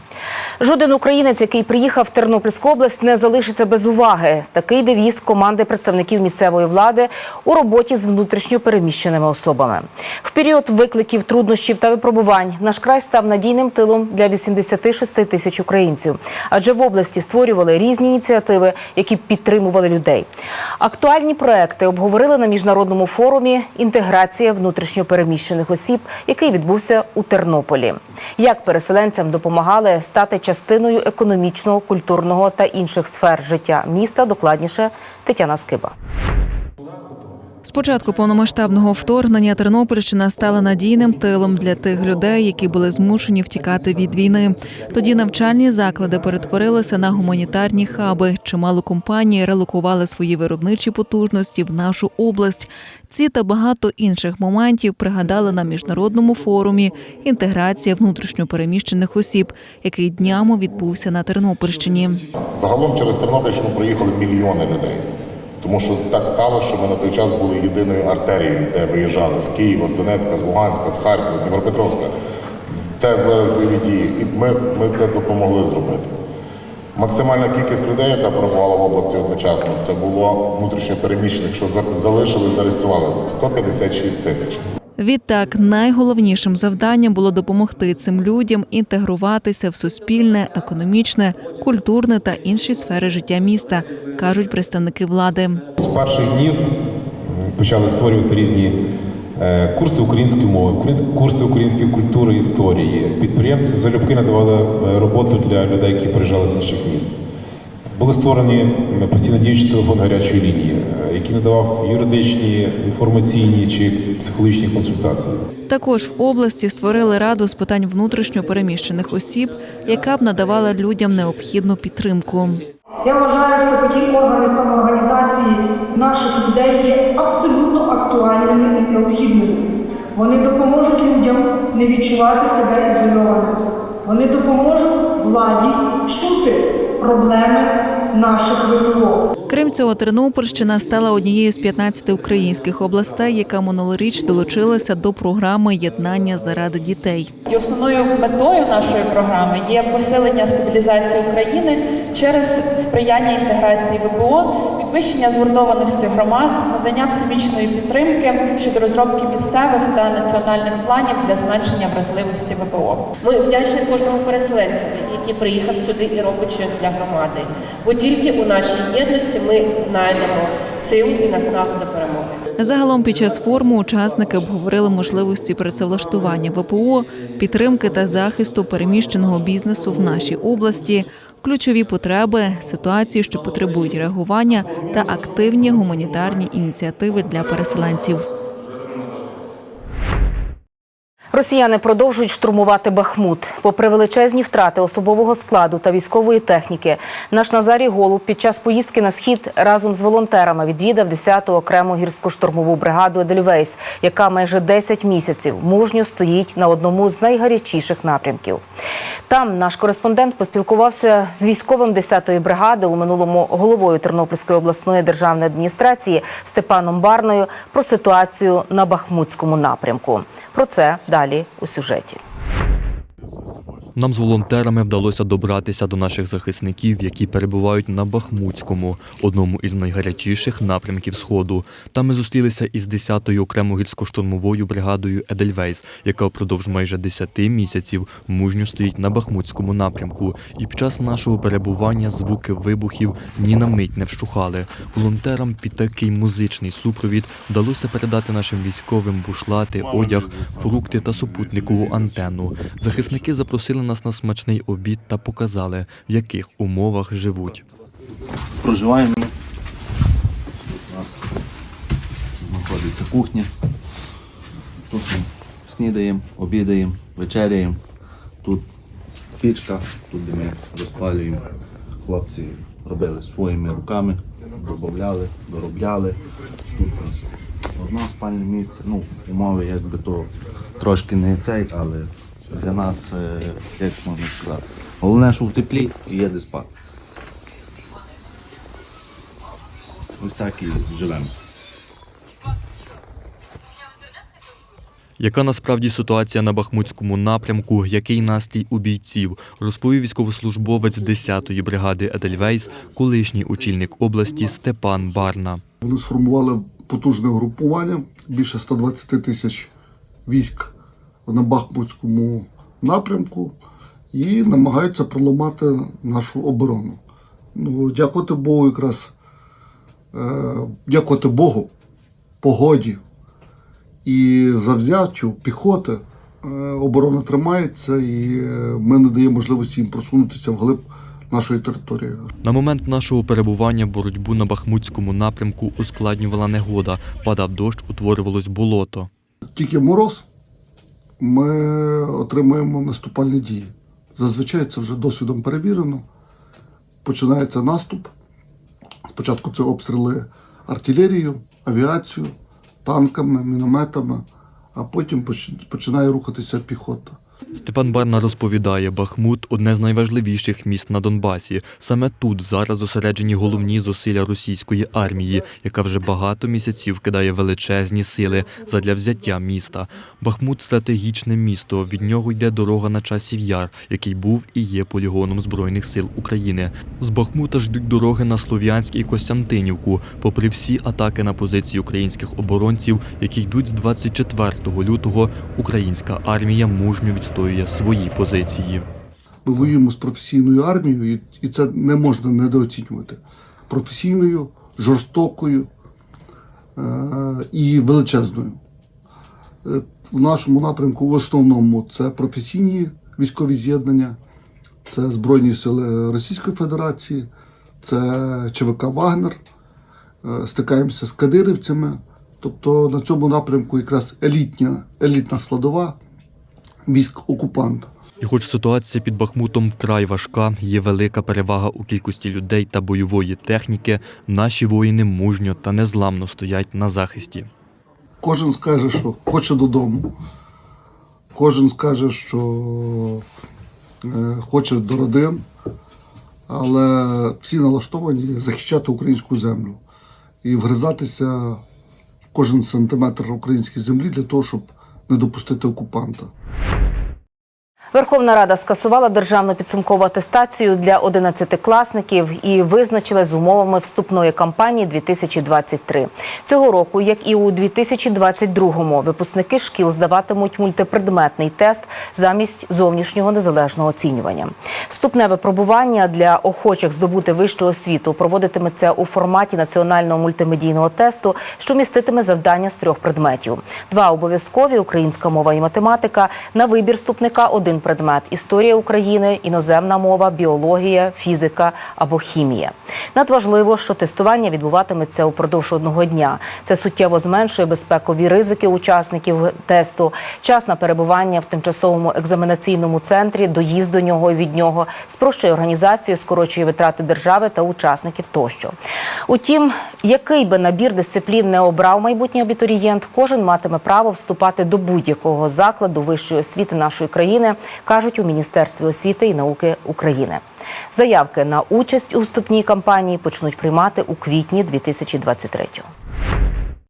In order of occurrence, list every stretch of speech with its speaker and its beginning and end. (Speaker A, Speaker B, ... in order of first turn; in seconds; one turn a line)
Speaker A: 0.6-20.3
Speaker A: 20.8-35.9
Speaker B: 37.6-62.2
Speaker C: 62.6-65.0
Speaker C: 65.6-72.1
Speaker C: 72.7-76.1
Speaker C: 77.0-84.6
Speaker B: 85.0-95.6
Speaker D: 95.8-96.7
Speaker D: 97.5-98.8
Speaker D: 99.4-107.2
Speaker D: 108.0-115.3
Speaker B: 115.7-122.7
Speaker E: 123.0-129.6
Speaker E: 130.2-139.2
Speaker B: 139.5-147.3
Speaker F: 147.5-172.4
Speaker B: 172.6-188.3
Speaker A: 191.3-208.6
Speaker A: 209.3-222.2
Speaker G: 224.0-257.6
Speaker H: 258.6-259.3
Speaker H: 260.6-261.2
Speaker H: 262.4-263.5
Speaker H: 264.9-267.8
Speaker H: 269.4-271.4
Speaker H: 272.1-276.2
Speaker H: 276.7-286.7
Speaker H: 290.2-291.3
Speaker G: 295.2-305.6
Speaker I: 305.8-309.7
Speaker I: 310.3-310.7
Speaker I: 311.3-313.6
Speaker I: 314.1-317.0
Speaker I: 317.6-319.1
Speaker I: 320.1-321.7
Speaker I: 322.4-323.0
Speaker I: 324.1-332.3
Speaker G: 332.4-339.1
Speaker I: 339.6-340.2
Speaker I: 341.2-346.1
Speaker I: 347.1-348.1
Speaker I: 349.1-357.2
Speaker G: 357.6-388.9
Speaker I: 389.4-395.7
Speaker I: 396.8-398.6
Speaker I: 399.6-404.2
Speaker I: 404.9-407.3
Speaker I: 407.8-409.4
Speaker I: 410.2-416.0
Speaker I: 416.9-417.9
Speaker G: 418.2-427.5
Speaker I: 428.2-430.1
Speaker I: 431.3-433.2
Speaker I: 434.0-435.4
Speaker I: 436.5-439.8
Speaker I: 440.4-441.6
Speaker I: 442.3-446.3
Speaker A: 447.9-498.8
Speaker A: 499.3-510.4
Speaker A: 510.9-515.9